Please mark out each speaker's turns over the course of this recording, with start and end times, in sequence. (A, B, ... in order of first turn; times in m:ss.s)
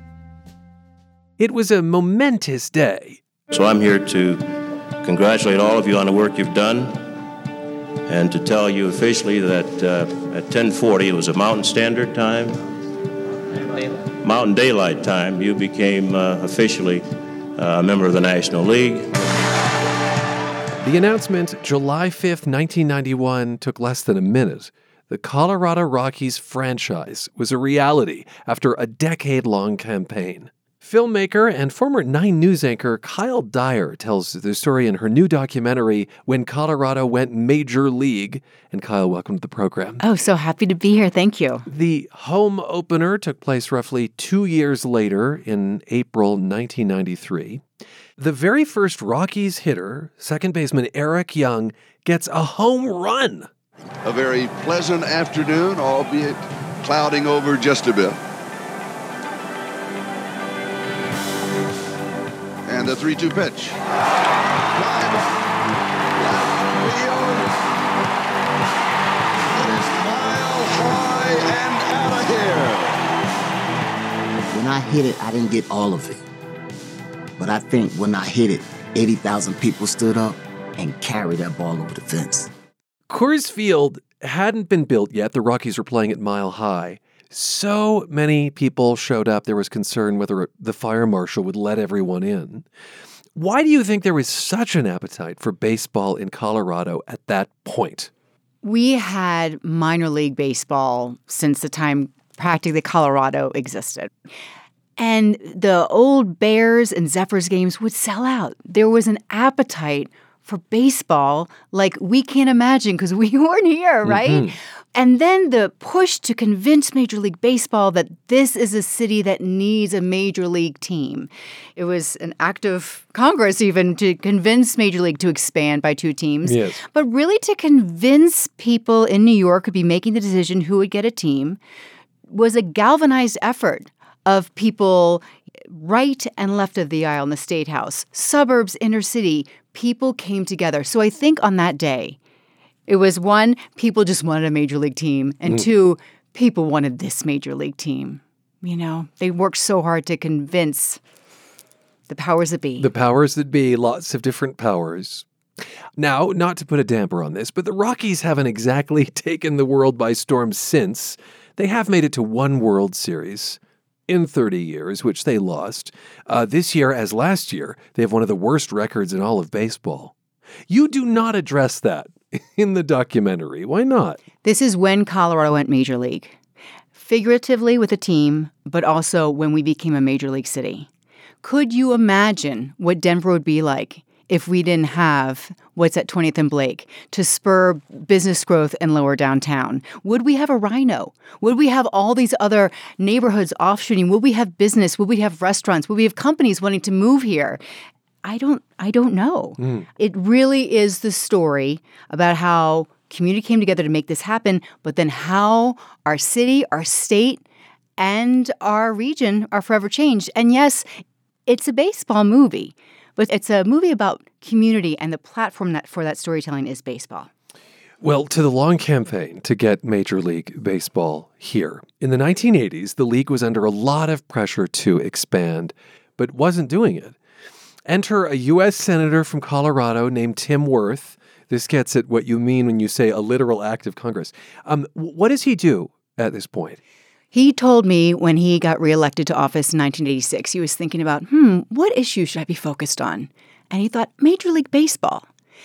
0:01.4-0:03.2 A
0:03.5-0:07.1 B
0:08.1-0:12.6 B
0:14.2-0:19.2 B
0:20.8-0:40.0 A
0:40.0-0:41.6 C
0:41.6-0:47.6 A
0:48.2-0:53.5 A
0:54.0-0:58.2 D
1:02.7-1:03.8 D
1:04.8-1:05.4 D
1:06.2-1:07.6 D
1:09.5-1:13.0 D
1:14.5-1:16.2 E
1:17.4-1:22.5 E
1:23.1-1:32.6 A
1:33.4-1:38.1 A
1:38.6-1:44.1 C
1:45.0-2:11.6 C
1:54.0-1:54.5 A
2:06.4-2:06.8 A
2:12.3-2:22.2 C
2:22.9-2:31.0 C
2:32.1-2:32.9 C
2:32.8-2:35.2 A
2:36.0-2:50.1 A
2:50.7-2:54.2 A
2:54.4-2:56.4 C
2:56.9-3:00.9 C
3:01.4-3:17.6 C
3:18.2-3:27.4 C
3:19.6-3:19.9 A
3:28.0-3:30.9 C
3:31.5-3:37.3 C
3:38.0-3:47.2 A
3:47.8-3:56.8 A
3:57.3-4:05.3 C